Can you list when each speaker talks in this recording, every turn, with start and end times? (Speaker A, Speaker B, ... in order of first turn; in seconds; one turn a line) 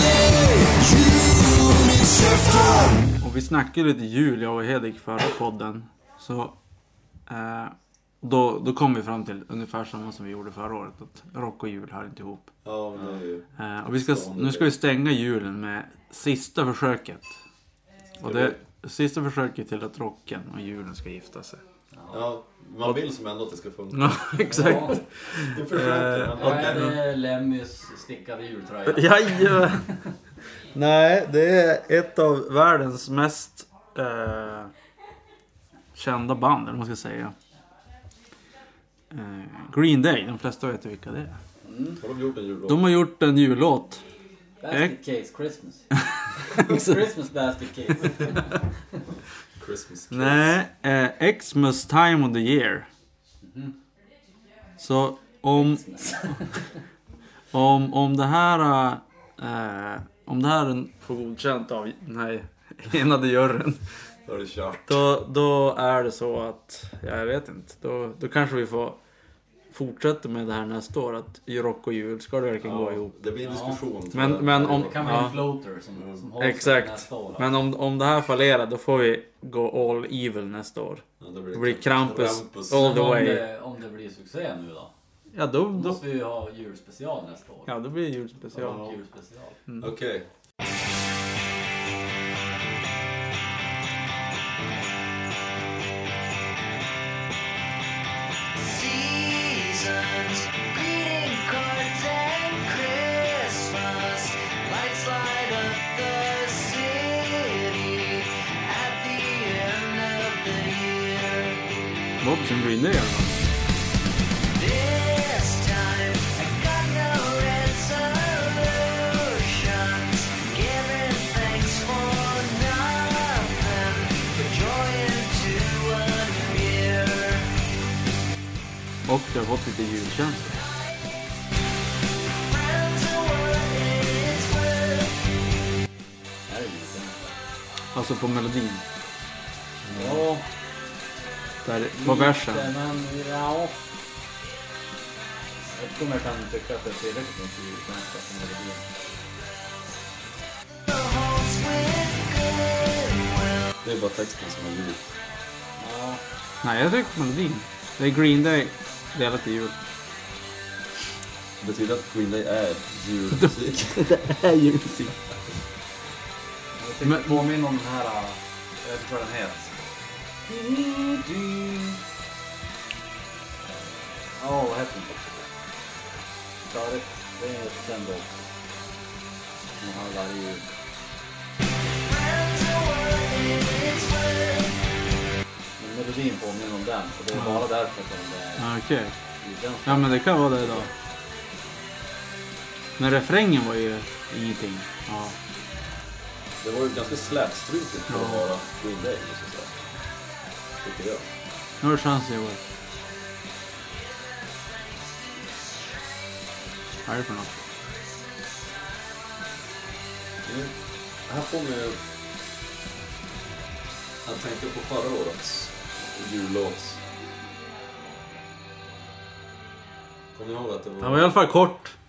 Speaker A: 3.2-6.5
Speaker A: 7.3-12.5
Speaker B: 12.6-14.7
Speaker A: 13.6-17.3
Speaker A: 18.2-21.6
Speaker B: 18.2-18.6
Speaker C: 21.9-22.2
Speaker B: 22.1-26.9
Speaker A: 23.9-27.0
Speaker C: 24.4-25.0
Speaker C: 26.3-29.9
Speaker A: 28.9-29.9
Speaker A: 30.7-34.7
Speaker A: 36.0-37.3
Speaker A: 39.1-41.4
Speaker C: 41.6-42.0
Speaker B: 42.0-42.9
Speaker A: 42.7-44.0
Speaker C: 44.6-45.8
Speaker C: 46.4-48.6
Speaker A: 46.5-47.0
Speaker B: 49.6-50.4
Speaker A: 50.1-52.9
Speaker C: 53.4-53.8
Speaker A: 54.8-56.3
Speaker C: 55.5-56.7
Speaker A: 57.5-63.8
Speaker B: 64.2-65.0
Speaker A: 64.9-69.0
Speaker A: 69.7-73.1
Speaker B: 72.6-75.3
Speaker C: 73.4-73.8
Speaker A: 74.1-75.5
Speaker C: 74.6-77.5
Speaker A: 76.4-83.5
Speaker B: 81.2-82.8
Speaker C: 82.7-84.9
Speaker A: 85.3-86.0
Speaker C: 85.7-87.7
Speaker A: 87.7-88.9
Speaker C: 88.5-89.6
Speaker B: 88.6-88.8
Speaker B: 89.8-90.3
Speaker D: 98.5-111.6
Speaker A: 112.2-113.4
Speaker D: 114.5-127.6
Speaker A: 129.1-130.6
Speaker D: 132.4-135.2
Speaker C: 136.5-137.3
Speaker A: 137.9-138.8
Speaker B: 139.9-140.2
Speaker C: 139.9-140.5
Speaker A: 141.6-142.6
Speaker C: 141.9-143.8
Speaker C: 145.7-148.8
Speaker D: 150.9-153.7
Speaker B: 153.8-155.0
Speaker C: 155.8-156.2
Speaker A: 156.6-159.8
Speaker B: 161.6-164.2
Speaker A: 163.4-165.2
Speaker C: 166.8-169.7
Speaker A: 167.0-167.4
Speaker C: 170.5-172.0
Speaker C: 173.7-175.2
Speaker C: 176.7-178.4
Speaker C: 179.8-180.7
Speaker D: 182.0-184.8
Speaker C: 185.8-188.7
Speaker A: 187.4-187.6
Speaker A: 188.6-189.1
Speaker C: 189.4-190.9
Speaker A: 189.9-190.9
Speaker A: 193.0-195.3
Speaker B: 196.6-199.7
Speaker A: 198.1-198.5
Speaker B: 200.8-201.2
Speaker A: 201.8-202.6
Speaker A: 207.1-207.6
Speaker B: 210.4-210.7
Speaker B: 211.3-212.0
Speaker B: 214.2-217.0
Speaker B: 220.3-221.4
Speaker A: 221.0-221.9